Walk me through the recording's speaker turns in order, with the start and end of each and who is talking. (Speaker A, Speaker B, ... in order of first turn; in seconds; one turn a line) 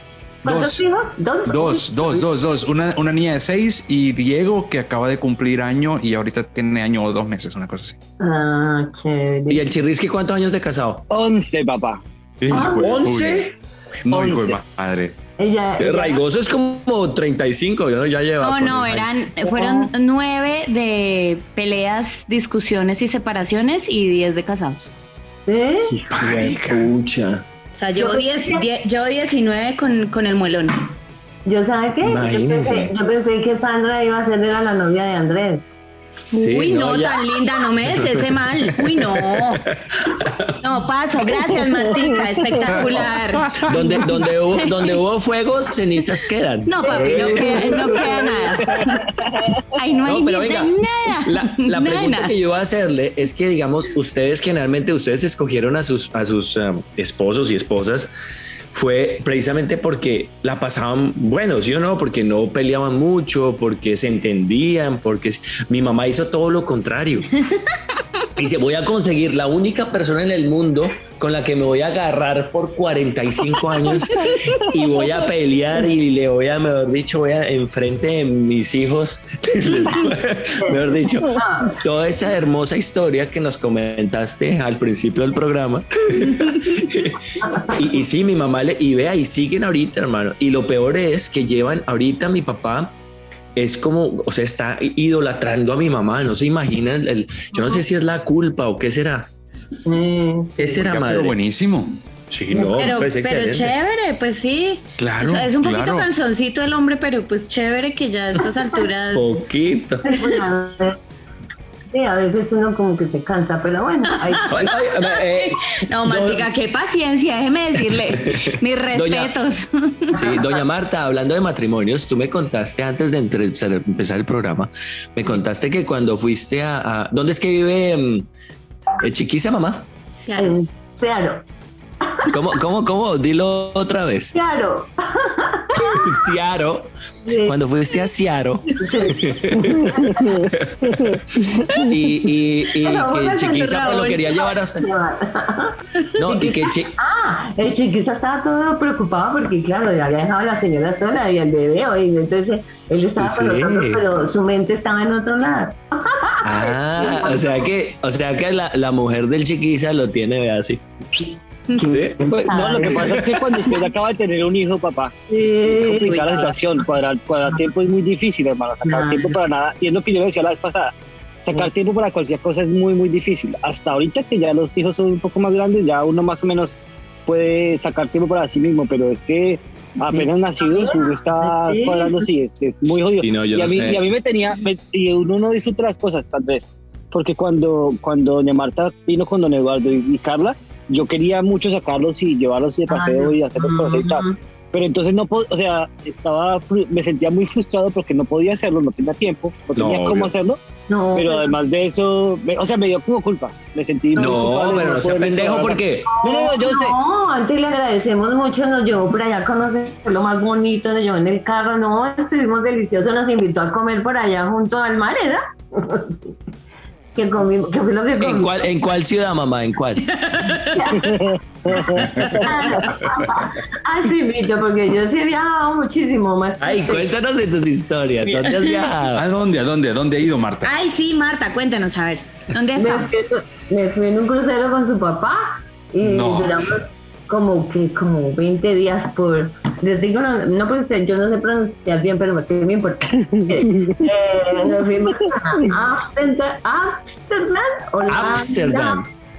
Speaker A: 0.4-2.2
Speaker B: 0.4-0.8
Speaker B: 1.4-8.0
Speaker A: 8.2-9.7
Speaker C: 9.5-11.1
Speaker D: 11.1-12.0
Speaker B: 12.4-13.5
Speaker A: 12.5-12.9
Speaker C: 12.5-13.6
Speaker B: 14.0-15.2
Speaker C: 14.1-14.5
Speaker A: 15.4-16.2
Speaker C: 15.8-19.1
Speaker E: 18.4-24.9
Speaker A: 19.4-19.9
Speaker A: 25.5-25.9
Speaker C: 25.9-27.4
Speaker B: 26.1-26.9
Speaker E: 27.7-30.9
Speaker A: 27.9-28.6
Speaker A: 31.4-35.7
Speaker C: 32.0-32.9
Speaker C: 36.3-37.4
Speaker E: 36.3-39.6
Speaker C: 37.9-38.2
Speaker C: 38.8-40.5
Speaker E: 40.6-45.0
Speaker B: 43.4-43.8
Speaker C: 43.6-48.0
Speaker E: 46.6-49.0
Speaker A: 46.8-48.4
Speaker D: 48.6-49.4
Speaker E: 49.7-52.3
Speaker C: 50.0-58.1
Speaker C: 58.7-67.3
Speaker C: 68.3-92.9
Speaker A: 80.6-81.8
Speaker A: 87.4-87.8
Speaker C: 93.5-99.3
Speaker A: 99.8-100.8
Speaker C: 100.6-101.3
Speaker B: 100.7-101.9
Speaker C: 102.3-103.7
Speaker E: 102.7-109.4
Speaker B: 105.0-106.1
Speaker C: 109.1-110.0
Speaker A: 110.0-111.0
Speaker A: 111.9-114.8
Speaker E: 114.1-120.3
Speaker C: 114.5-116.5
Speaker C: 117.8-119.3
Speaker C: 120.1-128.3
Speaker C: 129.0-129.9
Speaker E: 130.2-130.5
Speaker A: 130.3-131.4
Speaker A: 132.1-132.3
Speaker C: 132.3-134.3
Speaker A: 134.3-136.2
Speaker C: 135.8-136.9
Speaker A: 137.2-137.6
Speaker C: 137.4-144.9
Speaker A: 138.8-141.2
Speaker A: 142.8-157.7
Speaker E: 143.6-144.2
Speaker C: 146.2-146.9
Speaker C: 153.2-154.0
Speaker C: 156.4-162.2
Speaker A: 161.8-163.2
Speaker D: 162.2-200.6
Speaker C: 162.8-163.6
Speaker A: 165.3-166.5
Speaker E: 166.1-166.5
Speaker A: 168.8-169.4
Speaker A: 180.1-182.3
Speaker C: 183.2-184.0
Speaker A: 192.9-194.4
Speaker C: 199.8-200.3
Speaker A: 200.9-201.6
Speaker D: 201.1-206.9
Speaker C: 204.1-206.1
Speaker A: 206.1-216.3
Speaker A: 217.1-218.6
Speaker C: 218.2-220.2
Speaker E: 220.1-221.0
Speaker A: 220.6-221.2
Speaker D: 221.0-222.6
Speaker A: 221.8-227.1
Speaker B: 222.0-222.3
Speaker E: 222.4-222.8
Speaker C: 226.6-229.2
Speaker B: 229.1-230.7
Speaker E: 230.6-233.1
Speaker A: 232.8-249.0
Speaker B: 236.0-236.7
Speaker C: 248.1-249.1